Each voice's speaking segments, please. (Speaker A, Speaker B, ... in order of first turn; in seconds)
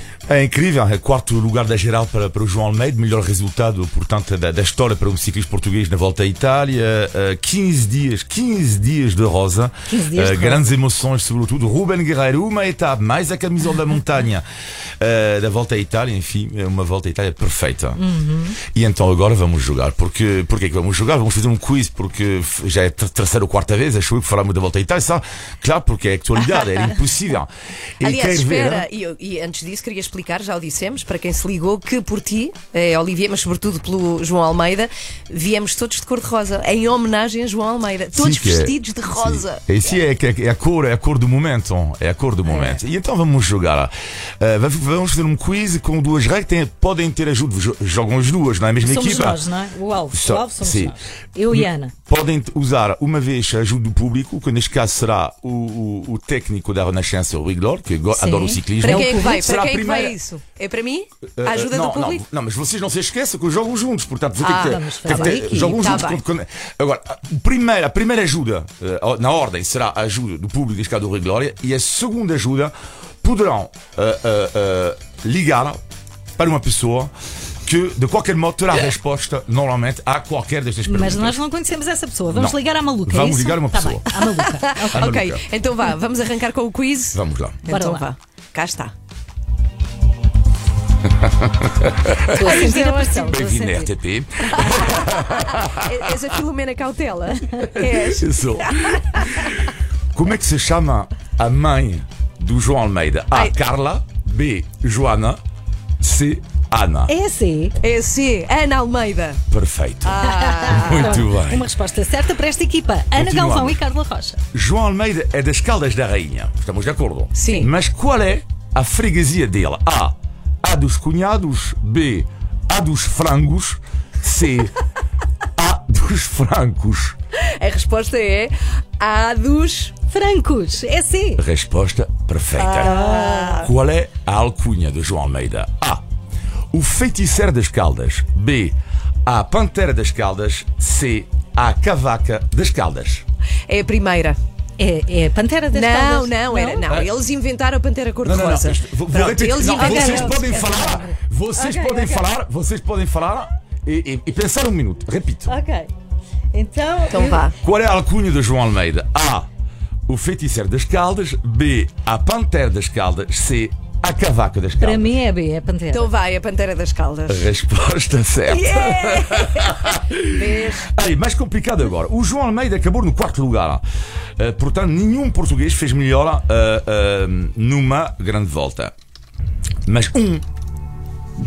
Speaker A: 0.3-14.4, 15.0-18.0, 18.6-28.9, 38.1-49.4, 50.1-51.0, 51.5-60.2, 61.4-75.8, 76.4-77.1, 77.7-81.4, 82.3-84.1, 84.9-85.4, 87.1-87.7, 91.2-92.5, 93.1-95.8, 97.6-105.4, 106.0-107.1, 109.5-111.7, 113.1-113.8, 114.5-124.7, 125.6-127.2, 131.4-133.0, 133.5-136.0, 136.7-143.2, 146.9-147.2, 148.2-155.5, 157.6-159.5, 160.1-165.2, 167.3-173.8, 174.4-178.9, 179.9-180.5
Speaker B: 9.9-10.7, 18.0-18.6, 42.5-42.8, 48.8-51.9, 58.1-59.4, 64.6-66.0, 80.9-85.2, 87.7-88.1, 92.3-93.9, 107.1-107.8, 110.3-114.4, 130.1-131.4, 132.8-133.7, 144.8-146.8, 149.8-151.0, 151.6-152.3, 155.5-155.9, 156.5-157.5, 164.8-166.1
Speaker C: 28.0-39.6, 58.8-62.2, 64.4-66.2, 84.3-88.9, 92.3-93.3, 94.6-99.5, 107.8-109.4, 110.0-111.3, 117.3-117.7, 127.4-129.9, 132.6-133.7, 143.7-144.4, 145.7-151.1, 157.1-157.6, 165.9-167.5, 168.5-170.9